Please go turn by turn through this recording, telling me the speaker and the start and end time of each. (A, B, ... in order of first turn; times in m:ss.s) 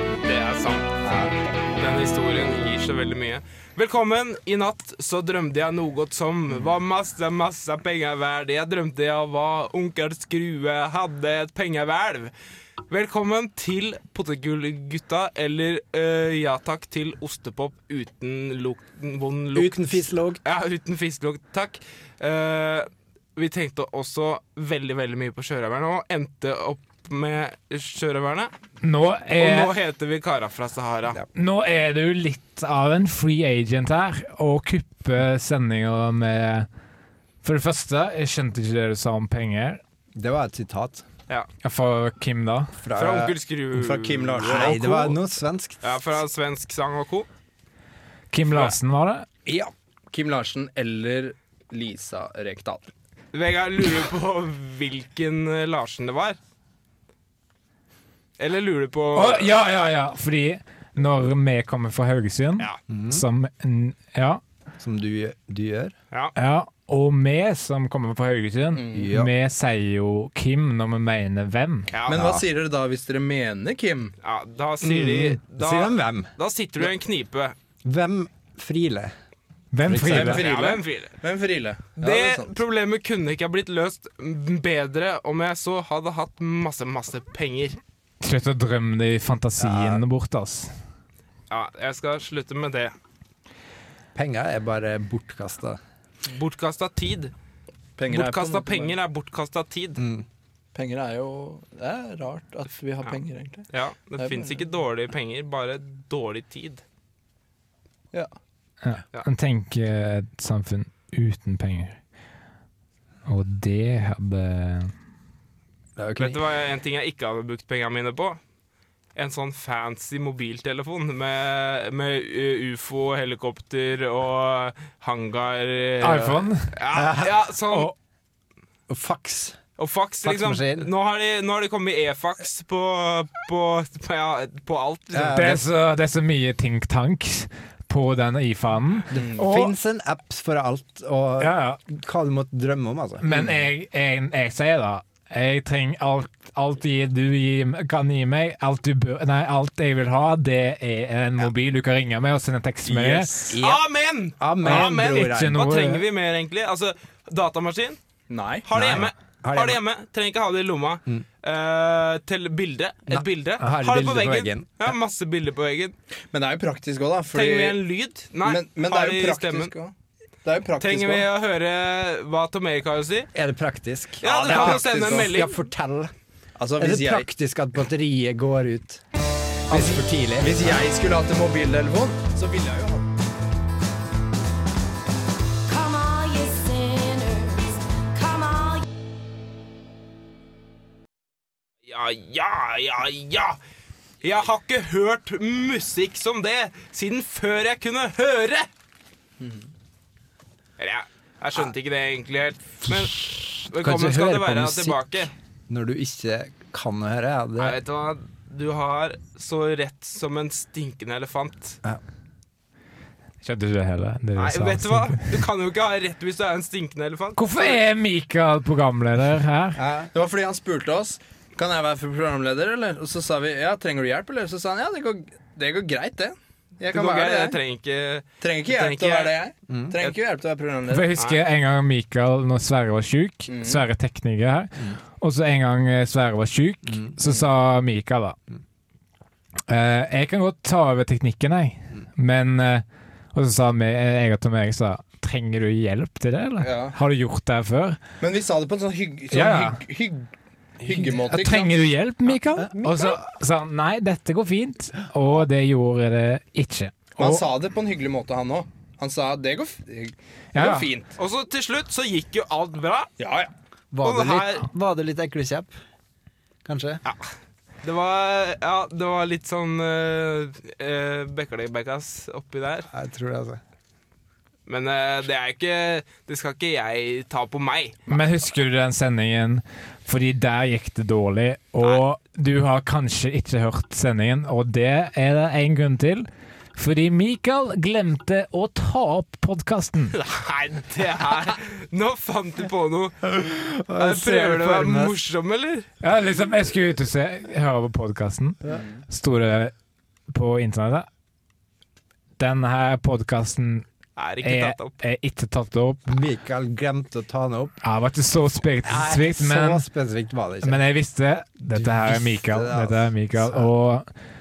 0:00.2-0:00.9 A
0:01.0-0:01.4 B
0:01.7-0:12.3 A
0:12.9-0:28.5 A
0:19.5-0:20.4 B
0:28.8-0:29.7 C
0:29.4-0:31.2 A
0:31.3-0:36.7 C
0:37.4-0:39.8 C
0:40.1-0:41.0 B
0:41.6-0:42.7 C
0:42.8-0:43.3 B
0:43.0-0:45.2 A
0:43.7-0:45.1 D
0:44.4-0:46.0 B
0:45.8-0:47.3 A
0:48.3-0:49.3 C
0:48.5-0:48.7 A
0:49.4-0:52.9 D
0:53.3-0:56.4 A
0:58.4-0:59.5 A
0:59.1-1:04.4 C
1:02.9-1:03.2 B
1:04.8-1:05.9 B
1:06.4-1:11.9 C
1:08.7-1:09.1 D
1:08.9-1:09.3 B
1:11.9-1:12.2 A
1:12.0-1:12.4 B
1:12.1-1:14.1 D
1:14.2-1:17.6 A
1:14.8-1:16.3 B
1:17.8-1:19.1 B
1:19.7-1:20.4 C
1:19.8-1:20.5 B
1:20.0-1:22.5 D
1:20.2-1:21.1 A
1:22.0-1:27.8 A
1:28.2-1:30.7 C
1:29.6-1:30.0 B
1:31.5-1:32.9 A
1:34.1-1:35.8 B
1:36.3-1:37.3 A
1:38.0-1:38.9 D
1:38.1-1:40.0 A
1:40.0-1:40.2 B
1:40.7-1:44.6 D
1:43.7-1:46.8 A
1:48.8-1:52.0 C
1:53.2-1:54.9 C
1:56.0-1:56.4 B
1:56.2-1:58.4 A
1:59.1-2:07.9 A
2:06.0-2:06.7 C
2:06.9-2:07.4 B
2:08.9-2:09.6 B
2:09.8-2:15.6 A
2:10.2-2:10.9 B
2:15.1-2:15.7 B
2:15.3-2:19.7 C
2:19.1-2:23.3 B
2:19.1-2:19.5 D
2:21.4-2:21.8 C
2:23.2-2:33.4 C
2:32.9-2:33.5 D
2:33.5-2:35.7 B
2:33.6-2:38.0 A
2:34.6-2:36.0 C
2:38.3-2:39.1 D
2:38.7-2:46.0 A
2:38.7-2:39.8 B
2:43.1-2:44.9 B
2:46.3-2:47.8 D
2:47.3-2:49.7 A
2:48.4-2:49.9 D
2:50.4-2:51.3 D
2:50.8-2:53.3 A
2:53.3-2:56.1 B
2:54.2-2:55.6 A
2:54.2-2:55.3 D
2:56.6-2:57.3 D
2:56.8-2:59.0 B
2:59.7-3:00.9 B
2:59.7-3:03.1 D
3:05.7-3:08.8 E
3:11.8-3:13.6 A
3:14.2-3:18.7 A
3:19.4-3:19.7 D
3:20.8-3:25.3 A
3:23.6-3:27.8 B
3:27.6-3:31.8 A
3:33.4-3:35.2 C
3:34.4-3:37.8 A
3:37.4-3:39.8 C
3:39.8-3:40.1 B
3:40.1-3:47.6 D
3:46.9-3:49.4 A
3:48.4-3:51.1 D
3:49.7-3:50.0 B
3:50.9-3:58.4 C
3:53.5-3:53.8 D
3:56.9-3:57.2 B
3:59.7-4:08.0 C
4:06.6-4:07.0 D
4:08.2-4:10.3 D
4:09.3-4:09.8 C
4:10.8-4:11.9 D
4:11.2-4:17.4 C
4:12.8-4:13.2 D
4:17.2-4:21.1 D
4:20.5-4:20.9 C
4:21.2-4:23.1 A
4:23.2-4:23.5 D
4:23.9-4:25.7 B
4:24.0-4:24.6 A
4:26.6-4:27.0 B
4:27.8-4:32.9 A
4:32.9-4:33.6 B
4:34.7-4:38.0 A
4:38.1-4:50.1 C
4:50.1-4:55.9 A
4:53.2-4:55.2 B
4:56.0-4:59.7 C
5:00.3-5:01.1 C
5:02.4-5:03.8 C
5:04.2-5:05.0 A
5:04.4-5:06.1 C
5:06.1-5:07.8 B
5:07.8-5:09.8 C
5:08.8-5:10.8 B
5:10.6-5:14.1 C
5:11.6-5:13.7 B